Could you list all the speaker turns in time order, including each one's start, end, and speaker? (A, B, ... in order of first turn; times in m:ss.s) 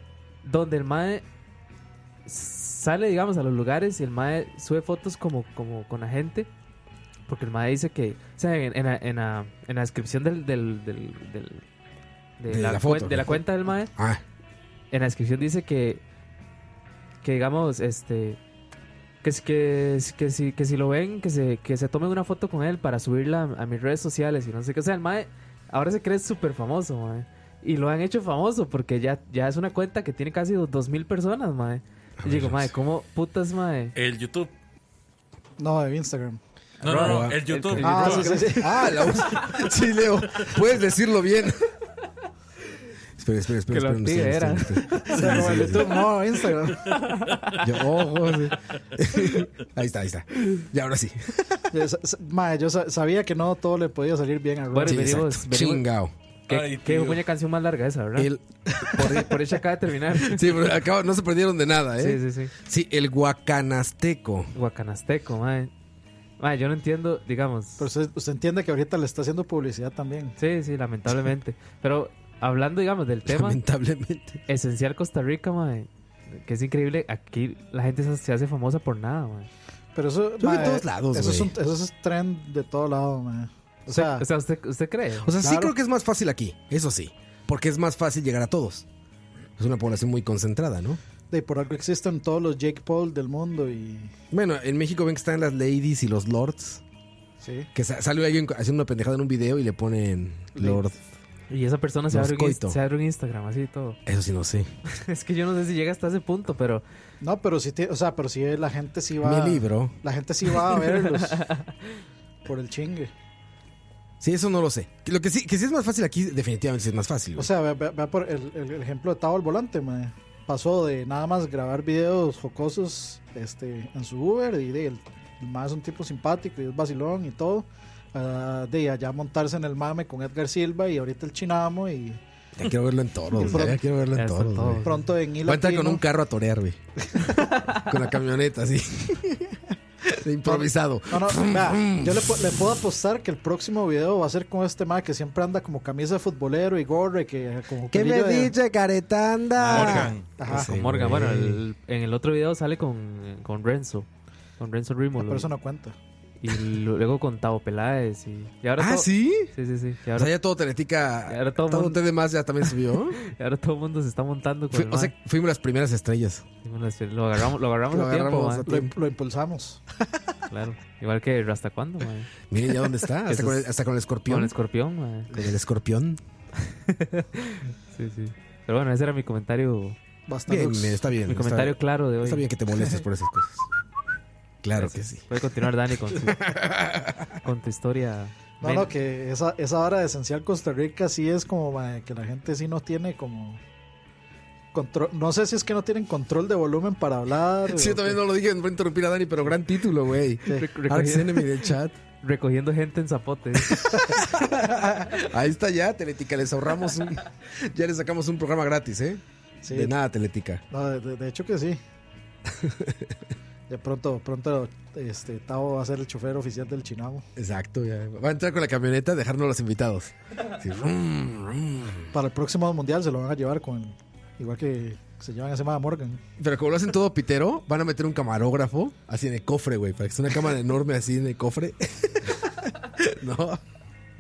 0:00.4-0:01.2 A
0:02.3-0:06.5 A
0:07.3-0:11.6 A
0:12.4-0:13.9 A
0:12.5-0:14.2 B
0:14.9-0:16.0 A
0:17.2-0:18.4 A
0:19.2-0:33.9 A
0:32.2-0:32.7 B
0:34.0-0:34.5 C
0:35.6-0:36.4 D
0:36.8-0:38.4 C
0:36.8-0:39.6 A
0:36.9-0:37.8 B
0:37.8-0:39.3 D
0:38.5-0:41.8 B
0:43.2-0:46.0 B
0:43.7-0:45.8 A
0:45.0-0:47.0 D
0:46.8-0:47.6 A
0:47.6-0:51.7 B
0:51.7-0:55.3 D
0:54.7-0:55.9 A
0:54.8-0:56.1 B
0:56.5-0:58.3 A
0:56.5-0:57.2 C
0:58.2-0:59.4 B
0:58.9-1:00.5 A
1:00.2-1:04.5 B
1:02.0-1:02.5 A
1:04.6-1:05.7 A
1:06.4-1:07.9 A
1:07.8-1:10.4 D
1:10.4-1:13.6 A
1:13.3-1:14.4 B
1:14.5-1:19.5 A
1:20.0-1:24.3 D
1:20.4-1:21.5 B
1:23.9-1:25.3 A
1:25.2-1:28.9 B
1:25.4-1:25.7 D
1:29.6-1:31.0 B
1:31.3-1:34.1 D
1:34.3-1:36.8 B
1:37.4-1:37.7 D
1:37.7-1:41.0 B
1:40.6-1:40.9 D
1:41.5-1:44.0 A
1:42.1-1:42.8 B
1:44.1-1:44.7 B
1:44.9-1:46.8 A
1:47.2-1:51.5 D
1:49.2-1:50.0 B
1:51.4-1:52.0 A
1:52.4-1:53.1 D
1:54.2-1:57.5 B
1:57.4-2:12.2 D
2:12.6-2:14.9 B
2:13.4-2:13.8 D
2:14.1-2:15.0 A
2:14.8-2:16.0 D
2:15.4-2:16.8 B
2:17.4-2:17.8 A
2:17.7-2:22.5 B
2:20.4-2:28.5 D
2:27.9-2:31.6 B
2:29.6-2:34.1 A
2:29.7-2:30.3 C
2:30.4-2:30.7 D
2:34.6-2:35.5 A
2:35.2-2:36.0 D
2:36.4-2:40.4 A
2:38.8-2:39.5 B
2:40.2-2:43.2 B
2:41.3-2:42.0 A
2:43.2-2:45.1 A
2:44.7-2:46.4 B
2:46.6-2:48.7 A
2:47.9-2:48.9 B
2:48.7-2:49.8 D
2:50.5-2:52.3 A
2:52.5-2:54.6 B
2:53.3-2:53.7 A
2:54.3-2:55.3 A
2:55.3-2:56.2 B
2:56.6-3:00.0 A
3:00.3-3:01.0 D
3:00.5-3:03.7 B
3:01.3-3:02.5 A
3:04.6-3:05.4 B
3:04.8-3:06.5 A
3:06.1-3:07.4 B
3:07.4-3:08.9 A
3:08.6-3:13.6 D
3:14.7-3:18.2 D
3:17.7-3:22.0 B
3:20.5-3:21.6 A
3:22.2-3:24.2 A
3:23.6-3:30.6 B
3:29.6-3:29.9 D
3:30.7-3:31.8 D
3:32.5-3:33.2 B
3:33.7-3:37.2 D
3:37.4-3:42.1 B
3:42.1-3:46.2 D
3:46.4-3:53.6 B